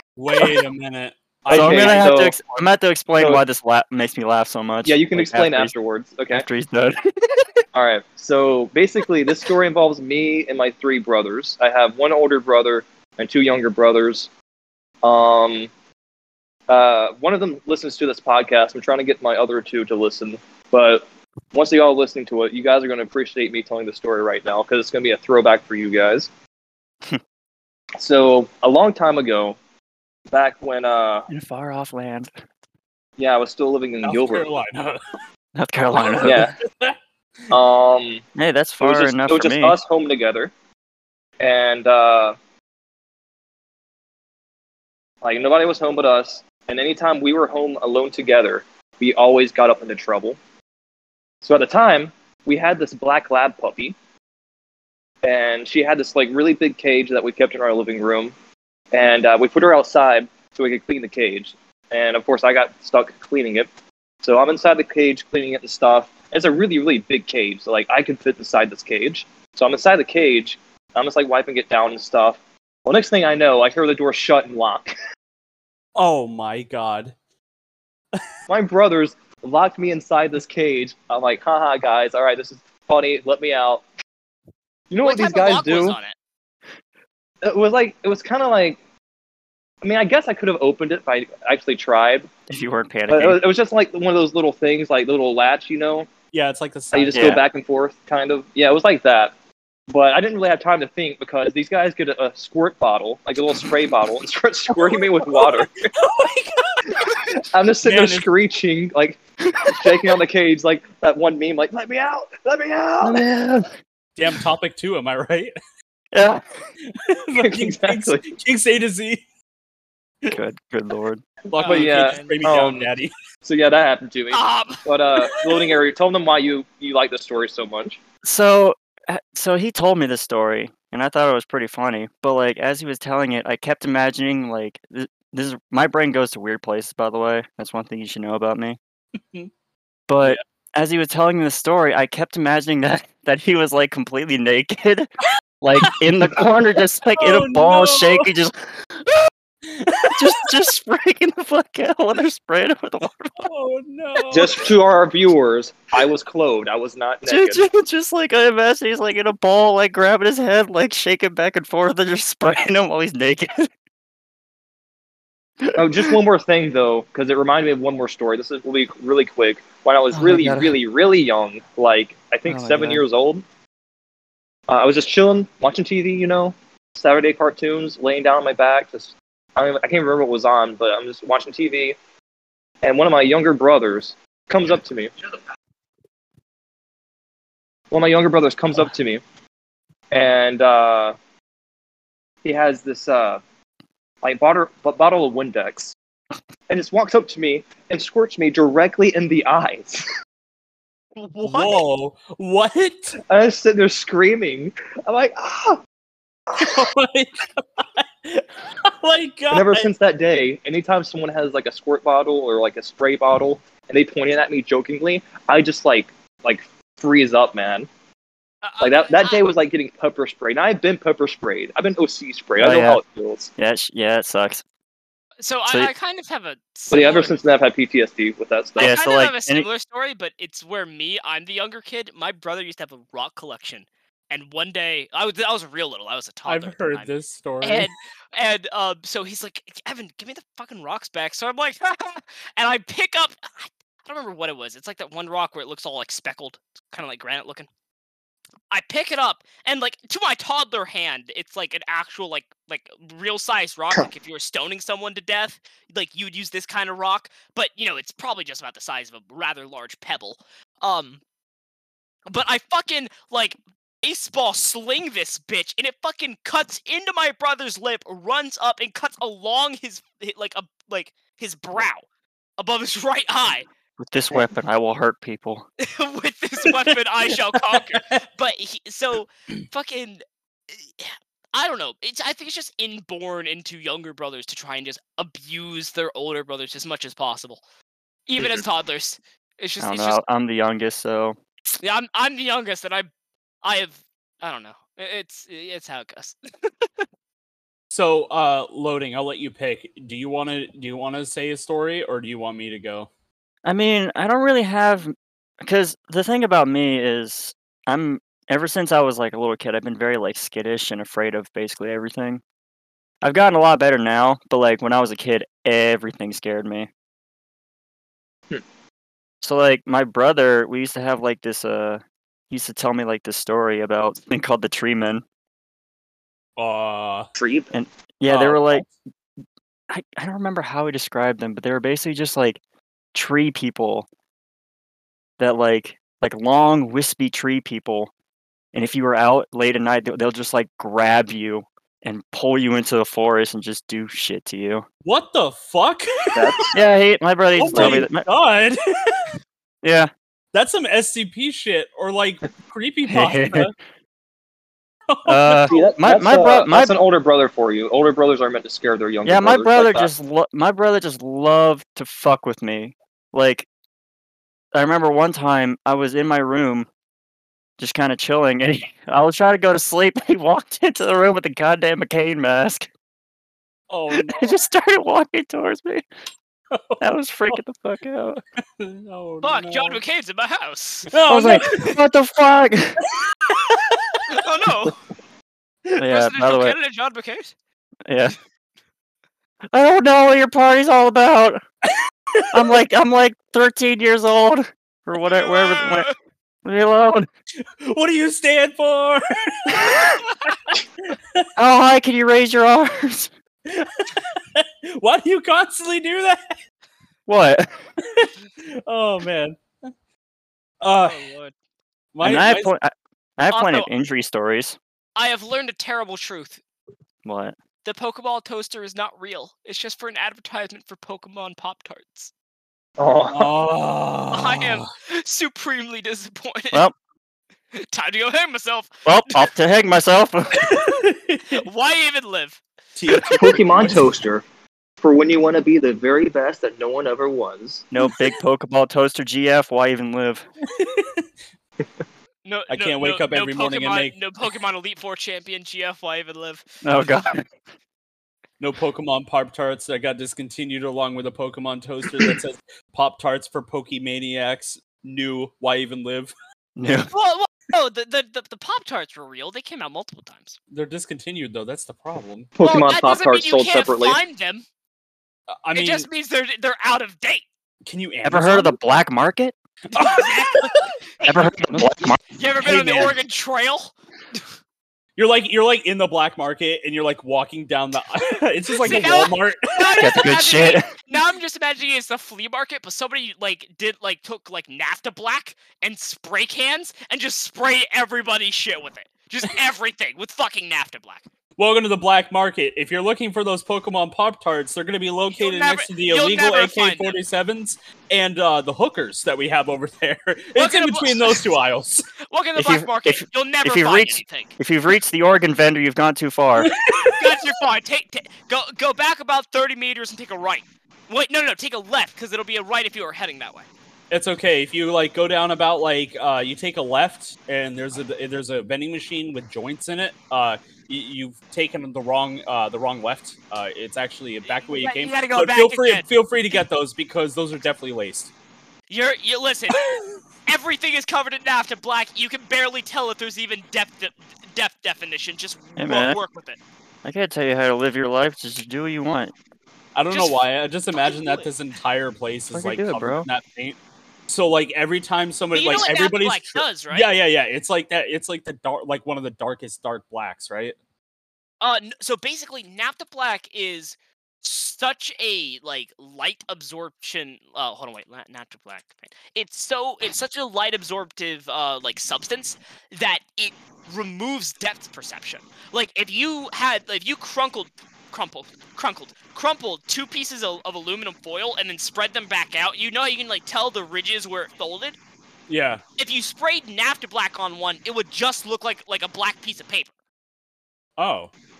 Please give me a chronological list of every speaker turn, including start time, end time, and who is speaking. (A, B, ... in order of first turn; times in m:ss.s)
0:00.2-0:02.3 A
0:01.5-0:02.4 B
0:01.5-0:05.7 C
0:03.2-0:03.4 B
0:04.8-0:06.4 B
0:06.3-0:07.6 C
0:07.7-0:14.3 B
0:15.0-0:15.7 B
0:16.7-0:26.3 B
0:28.0-0:29.6 B
0:30.3-0:31.3 B
0:31.3-0:32.3 C
0:33.2-0:34.5 B
0:34.0-0:35.0 A
0:35.5-0:36.5 C
0:36.0-0:37.0 A
0:36.2-0:36.6 B
0:37.5-0:38.2 B
0:38.4-0:39.8 C
0:38.8-0:40.5 B
0:41.4-0:42.3 B
0:45.2-0:50.4 B
0:51.4-0:54.0 B
0:55.2-0:58.3 B
0:58.9-1:03.7 B
1:04.2-1:14.9 B
1:16.0-1:17.1 A
1:18.5-1:23.8 B
1:24.9-1:26.0 B
1:25.0-1:26.1 D
1:27.4-1:28.8 B
1:29.8-1:32.3 B
1:32.5-1:33.4 C
1:33.1-1:36.1 B
1:36.3-1:37.4 A
1:36.9-1:39.3 B
1:37.1-1:37.4 C
1:39.9-1:45.9 B
1:44.8-1:47.1 A
1:46.9-1:53.2 B
1:47.8-1:48.3 A
1:49.6-1:49.9 C
1:53.0-1:53.7 C
1:54.2-1:55.5 A
1:56.1-1:56.4 C
1:56.8-1:59.2 A
1:57.4-1:58.2 B
2:00.3-2:01.2 C
2:01.5-2:03.1 A
2:01.6-2:02.4 D
2:01.6-2:02.9 B
2:03.4-2:08.0 B
2:04.3-2:04.8 D
2:05.2-2:05.7 A
2:08.2-2:18.8 C
2:20.1-2:25.1 C
2:25.6-2:29.3 C
2:25.8-2:26.0 A
2:27.1-2:28.3 A
2:29.6-2:30.6 A
2:30.2-2:33.5 C
2:33.4-2:34.7 A
2:34.3-2:37.6 B
2:37.2-2:43.7 C
2:45.6-2:46.1 C
2:45.7-2:53.4 B
2:50.1-2:50.8 C
2:52.4-2:53.0 C
2:54.7-3:02.0 B
3:02.8-3:05.2 B
3:07.9-3:09.2 B
3:10.1-3:11.1 B
3:12.4-3:13.4 B
3:14.2-3:15.9 B
3:16.7-3:20.0 B
3:21.2-3:21.8 D
3:21.4-3:23.2 A
3:23.3-3:25.8 B
3:26.5-3:26.8 B
3:26.6-3:29.9 A
3:29.5-3:37.9 B
3:38.6-3:39.4 D
3:38.8-3:43.5 B
3:42.6-3:43.0 C
3:43.6-3:44.6 C
3:45.4-3:47.4 D
3:46.9-3:48.9 B
3:48.8-3:49.7 C
3:48.8-4:07.7 D
3:56.5-3:57.9 A
4:08.7-4:21.2 D
4:22.3-4:32.0 D
4:32.6-4:33.7 D
4:34.0-4:35.7 C
4:35.8-4:47.6 D
4:37.7-4:38.2 A
4:48.3-4:50.2 D
4:49.8-4:51.4 C
4:51.8-4:53.1 D
4:53.6-4:57.0 D
4:57.9-5:03.1 A
5:03.6-5:12.4 C
5:13.2-5:16.9 C
5:19.4-5:25.2 C
5:26.6-5:27.3 A
5:27.4-5:27.7 B
5:27.7-5:28.9 C
5:28.3-5:28.9 A
5:29.9-5:32.6 C
5:33.1-5:34.1 C
5:35.4-5:38.1 C
5:38.7-5:44.8 C
5:45.0-5:46.6 A
5:46.3-5:46.8 B
5:46.7-5:48.2 C
5:47.5-5:49.3 A
5:47.7-5:48.1 B
5:49.8-5:50.1 C
5:50.5-5:53.7 A
5:53.1-5:53.7 C
5:55.1-5:55.9 A
5:55.2-5:56.9 C
5:55.7-6:00.1 B
5:59.2-6:03.7 C
6:04.7-6:06.9 C
6:07.8-6:12.9 C
6:13.9-6:14.5 A
6:14.1-6:16.0 C
6:16.7-6:17.6 A
6:17.0-6:18.4 C
6:18.8-6:20.0 A
6:19.4-6:21.9 D
6:21.1-6:21.9 A
6:21.3-6:23.0 C
6:23.1-6:24.2 A
6:24.3-6:25.0 D
6:26.0-6:26.8 C
6:26.0-6:27.5 D
6:28.1-6:28.3 C
6:29.7-6:31.6 C
6:32.3-6:32.7 A
6:32.5-6:36.1 C
6:35.2-6:36.1 D
6:36.6-6:37.3 C
6:37.8-6:41.4 A
6:41.6-6:43.3 C
6:43.6-6:46.6 A
6:47.3-6:47.7 C
6:48.0-6:49.6 A
6:50.8-6:51.2 A
6:51.0-6:51.5 D
6:52.1-6:52.7 A
6:52.2-6:54.8 C
6:53.5-6:53.9 D
6:55.2-6:56.6 D
6:57.2-6:57.5 C
6:57.8-7:02.3 D
7:03.0-7:03.5 B
7:03.3-7:04.9 A
7:04.3-7:06.8 D
7:07.7-7:09.5 D
7:09.0-7:10.8 C
7:10.6-7:11.6 A
7:11.5-7:13.5 D
7:13.0-7:14.2 A
7:13.4-7:14.4 B
7:15.0-7:17.8 B
7:17.9-7:20.4 C
7:20.6-7:21.2 A
7:22.4-7:26.6 D
7:22.7-7:24.2 A
7:26.8-7:27.4 C
7:28.6-7:36.3 A
7:36.8-7:37.1 C
7:37.1-7:40.6 D
7:40.7-7:42.5 A
7:42.6-7:44.2 B
7:42.6-7:44.6 D
7:45.5-7:46.1 A
7:45.7-7:47.4 D
7:47.8-7:48.8 A
7:48.2-7:49.5 C
7:49.9-7:50.6 A
7:49.9-7:54.4 D
7:51.2-7:53.1 C
7:52.6-7:53.1 A
7:55.2-8:00.2 A
7:58.3-8:11.3 D
8:00.0-8:00.9 C
8:11.6-8:22.1 A
8:15.3-8:17.2 D
8:20.6-8:21.5 D
8:22.2-8:24.5 D
8:22.6-8:26.7 C
8:26.6-8:27.4 A
8:27.0-8:33.7 D
8:34.1-8:48.3 A
8:44.5-8:46.1 D
8:48.9-8:49.8 D
8:49.7-8:50.1 A
8:50.5-8:56.6 D
8:55.8-8:56.2 C
8:57.0-8:59.3 C
8:59.9-9:10.7 A
9:00.1-9:00.4 D
9:00.9-9:01.5 D
9:02.5-9:03.3 C
9:05.5-9:07.1 D
9:11.6-9:35.0 D
9:35.5-9:35.8 A
9:36.0-9:39.9 D
9:41.0-9:41.3 A